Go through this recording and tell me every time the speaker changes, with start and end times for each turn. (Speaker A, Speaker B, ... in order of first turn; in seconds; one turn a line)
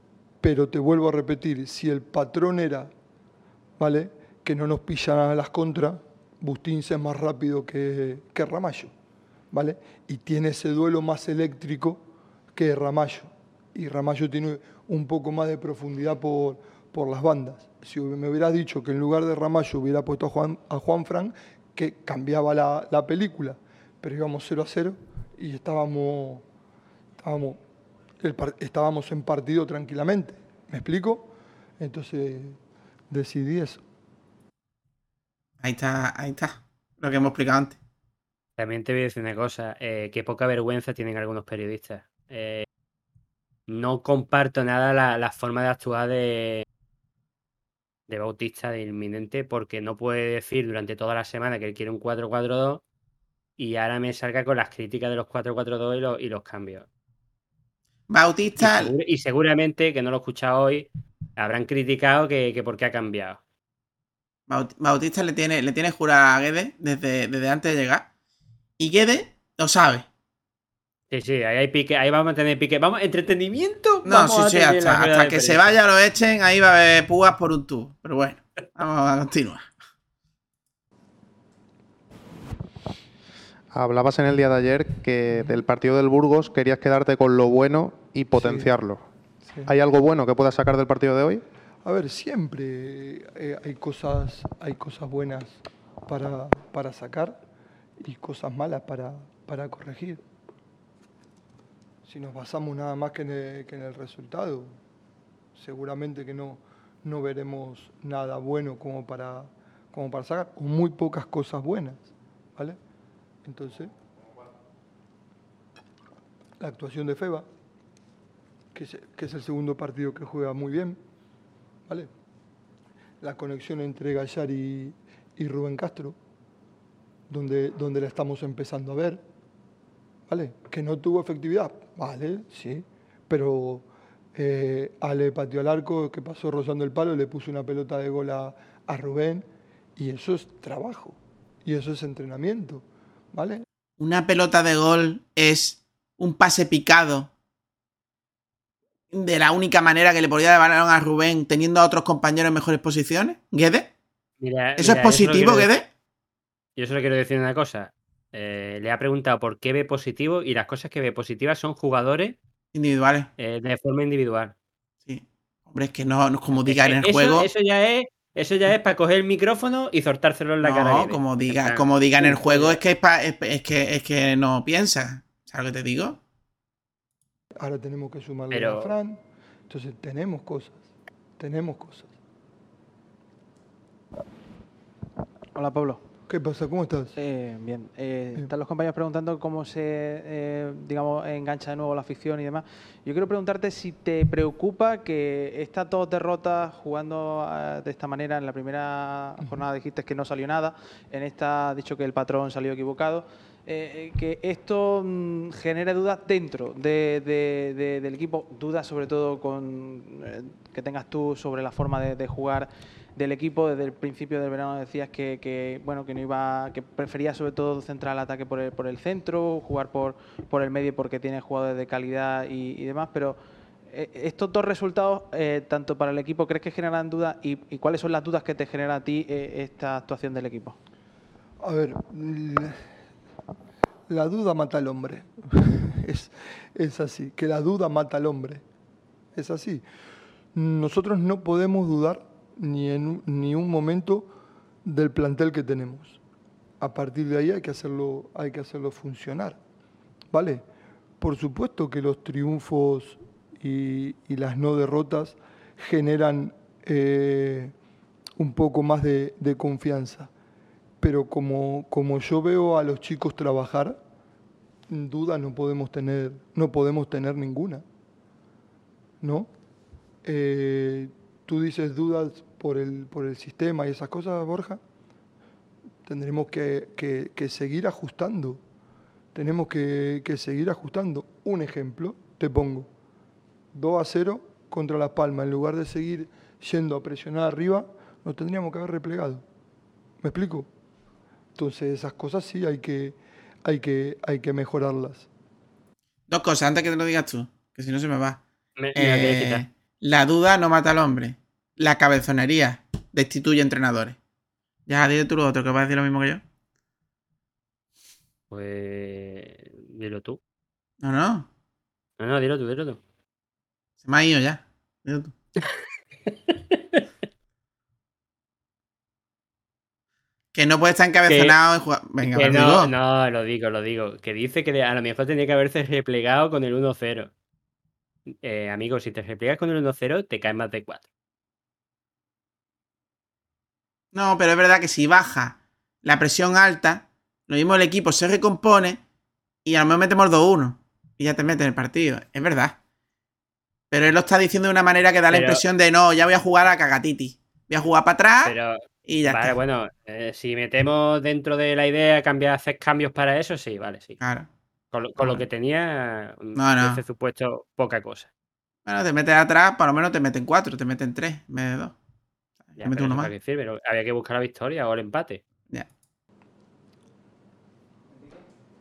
Speaker A: 0.4-2.9
Speaker A: 3.8-8.9
Speaker A: 9.5-12.0
Speaker A: 12.5-26.4
Speaker A: 27.2-27.6
Speaker A: 28.2-32.6
Speaker A: 33.1-33.8
Speaker B: 35.6-37.8
Speaker C: 38.6-42.6
Speaker C: 43.7-46.6
Speaker C: 48.1-52.8
Speaker C: 53.6-56.9
Speaker B: 58.1-58.9
Speaker C: 58.6-63.4
Speaker B: 64.5-68.1
Speaker B: 68.8-70.0
Speaker C: 71.1-75.8
Speaker B: 74.0-79.7
Speaker D: 83.7-89.0
Speaker A: 88.3-88.7
Speaker D: 89.7-91.4
Speaker A: 91.8-97.3
Speaker A: 98.0-100.2
Speaker A: 102.0-104.7
Speaker A: 105.5-112.8
Speaker A: 113.4-113.9
Speaker A: 116.6-117.5
Speaker A: 118.7-121.0
Speaker A: 123.2-126.2
Speaker A: 127.3-129.2
Speaker A: 130.3-139.4
Speaker A: 140.0-143.6
Speaker B: 144.0-147.3
Speaker B: 149.1-153.9
Speaker C: 154.4-155.7
Speaker B: 154.8-155.9
Speaker C: 156.8-162.3
Speaker B: 162.7-163.3
Speaker C: 163.4-164.5
Speaker B: 165.1-167.5
Speaker C: 166.6-172.8
Speaker B: 170.6-176.2
Speaker A: 177.6-180.8
Speaker C: 178.5-178.9
Speaker A: 181.4-182.1
Speaker E: 185.5-186.0
Speaker A: 186.3-187.2
Speaker E: 187.2-223.4
Speaker E: 223.9-230.8
Speaker A: 231.6-232.8
Speaker A: 234.1-238.6
Speaker A: 239.3-239.8
Speaker A: 240.5-244.3
Speaker A: 244.8-246.2
Speaker A: 246.8-249.6
Speaker A: 250.3-250.6
Speaker A: 251.2-257.7
Speaker A: 258.4-260.3
Speaker A: 261.0-264.0
Speaker A: 264.9-267.8
Speaker A: 269.2-269.5
Speaker A: 270.2-274.8
Speaker A: 276.1-278.6
Speaker A: 279.3-282.9
Speaker A: 283.7-289.4
Speaker A: 290.2-290.7
Speaker A: 291.6-295.3
Speaker B: 296.3-298.4
Speaker C: 298.8-299.6
Speaker B: 298.9-304.2
Speaker B: 304.9-306.4
Speaker C: 308.5-310.4
Speaker B: 311.0-311.5
Speaker C: 312.2-313.0
Speaker B: 314.0-315.3
Speaker C: 316.7-317.0
Speaker B: 320.5-322.9
Speaker C: 321.3-321.5
Speaker C: 322.2-327.3
Speaker C: 328.4-331.0
Speaker B: 334.1-339.0
Speaker B: 339.6-342.8
Speaker B: 343.9-348.5
Speaker C: 345.3-345.6
Speaker C: 348.4-354.2
Speaker B: 349.1-349.6
Speaker B: 354.2-354.5
Speaker C: 354.9-358.3
Speaker B: 355.2-355.4
Speaker B: 356.6-357.0
Speaker B: 358.9-361.9
Speaker B: 362.7-363.3
Speaker C: 362.8-365.4